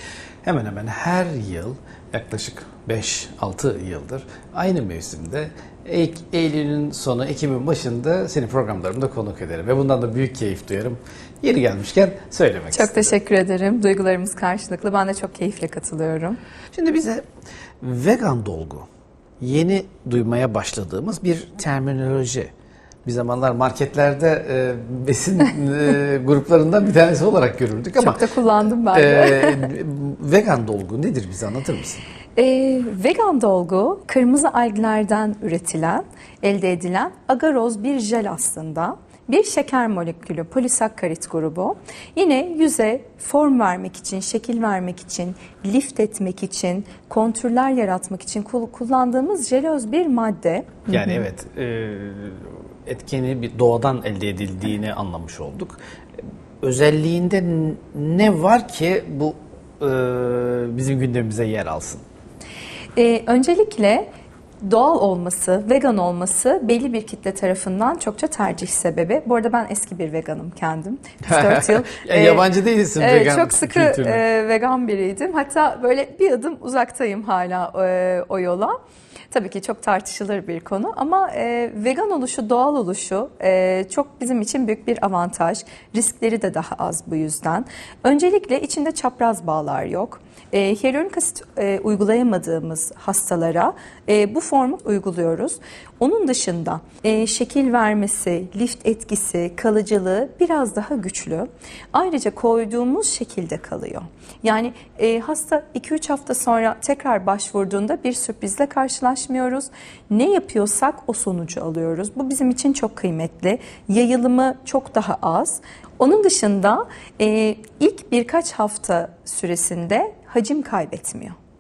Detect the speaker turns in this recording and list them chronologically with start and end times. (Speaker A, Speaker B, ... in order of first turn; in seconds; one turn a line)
Speaker A: 0.4-13.1
Speaker B: 12.7-16.4
Speaker A: 16.7-17.2
Speaker A: 17.8-18.9
Speaker A: 19.4-22.5
Speaker A: 23.1-28.2
Speaker B: 28.0-29.7
Speaker A: 28.9-32.0
Speaker B: 32.4-51.2
Speaker A: 50.9-55.8
Speaker A: 56.6-62.0
Speaker B: 63.0-64.1
Speaker B: 64.6-72.5
Speaker A: 71.3-74.2
Speaker B: 73.0-78.8
Speaker B: 79.3-121.3